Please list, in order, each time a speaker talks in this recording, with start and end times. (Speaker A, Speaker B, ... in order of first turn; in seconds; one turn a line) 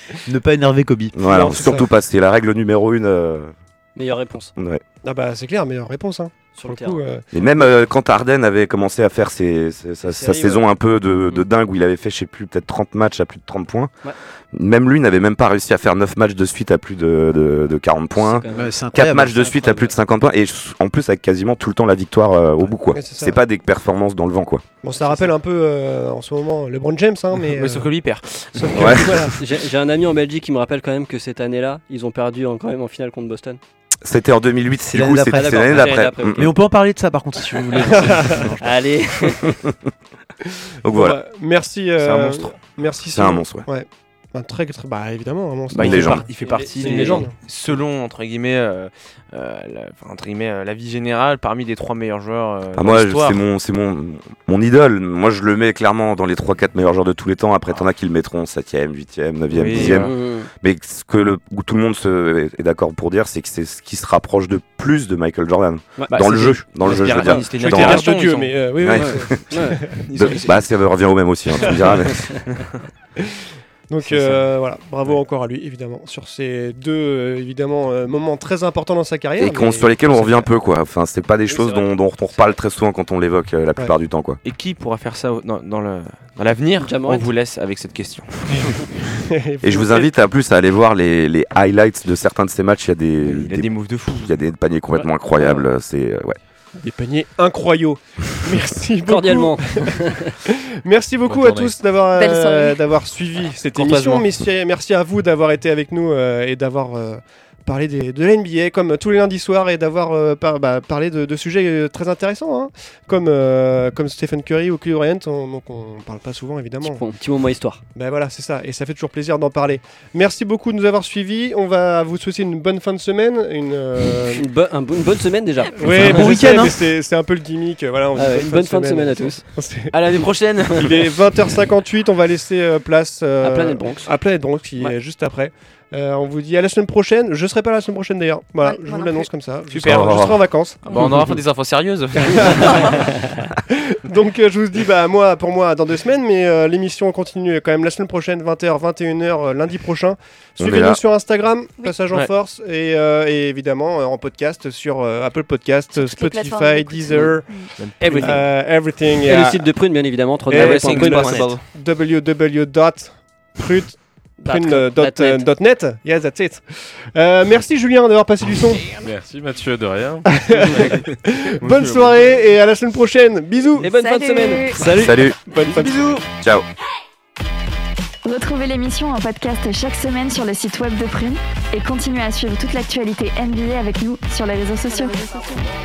Speaker A: 0.3-1.1
Speaker B: 1.1-3.5
Speaker C: 1.2-1.9
Speaker D: 4.0-4.5
Speaker B: 4.6-4.8
Speaker C: 5.0-7.2
Speaker D: 6.5-7.0
Speaker B: 7.3-13.9
Speaker D: 10.1-10.6
Speaker B: 14.5-24.6
Speaker D: 18.2-19.9
Speaker A: 18.5-19.4
Speaker C: 22.9-23.4
Speaker C: 24.8-27.9
Speaker E: 27.4-29.3
Speaker C: 28.6-29.3
Speaker B: 28.7-29.2
Speaker D: 29.3-33.6
Speaker B: 34.0-36.5
Speaker A: 34.9-38.7
Speaker D: 35.3-36.5
Speaker D: 37.8-39.5
Speaker C: 38.0-38.5
Speaker B: 39.5-39.7
Speaker B: 40.8-41.2
Speaker C: 40.9-47.3
Speaker E: 42.0-42.4
Speaker B: 43.1-43.6
Speaker E: 45.7-53.4
Speaker B: 45.7-46.3
Speaker D: 46.4-47.3
Speaker B: 52.7-68.1
Speaker E: 59.5-60.1
Speaker D: 59.7-60.5
Speaker E: 66.1-68.6
Speaker D: 66.8-67.5
Speaker C: 67.5-70.0
Speaker B: 68.8-69.5
Speaker D: 68.9-69.8
Speaker E: 70.1-70.6
Speaker B: 70.1-72.3
Speaker D: 72.1-72.4
Speaker C: 73.2-80.5
Speaker B: 79.4-84.4
Speaker D: 81.5-81.8
Speaker E: 84.4-88.9
Speaker D: 86.8-87.3
Speaker C: 88.5-90.1
Speaker B: 89.6-96.3
Speaker E: 93.2-94.3
Speaker C: 96.8-117.0
Speaker D: 99.1-100.3
Speaker F: 101.3-101.8
Speaker G: 102.1-102.8
Speaker E: 103.7-104.2
Speaker D: 116.8-117.8
Speaker C: 118.0-124.5
Speaker D: 124.2-126.7
Speaker C: 125.8-141.1
Speaker A: 125.9-126.7
Speaker D: 128.1-129.4
Speaker E: 129.9-131.0
Speaker D: 133.4-134.1
Speaker G: 138.6-139.3
Speaker E: 139.7-140.2
Speaker B: 139.9-140.4
Speaker E: 140.8-143.1
Speaker C: 142.2-143.2
Speaker C: 143.7-159.7
Speaker B: 150.6-151.0
Speaker G: 155.9-157.7
Speaker E: 157.8-158.4
Speaker D: 158.0-158.4
Speaker D: 159.2-161.6
Speaker C: 160.5-168.9
Speaker E: 160.5-161.6
Speaker D: 164.4-165.5
Speaker F: 168.9-172.3
Speaker C: 170.4-173.9
Speaker D: 173.8-175.3
Speaker G: 173.9-175.2
Speaker B: 174.8-175.4
Speaker C: 175.5-176.2
Speaker E: 175.5-176.2
Speaker B: 176.4-176.7
Speaker H: 178.2-185.2
Speaker G: 184.9-185.6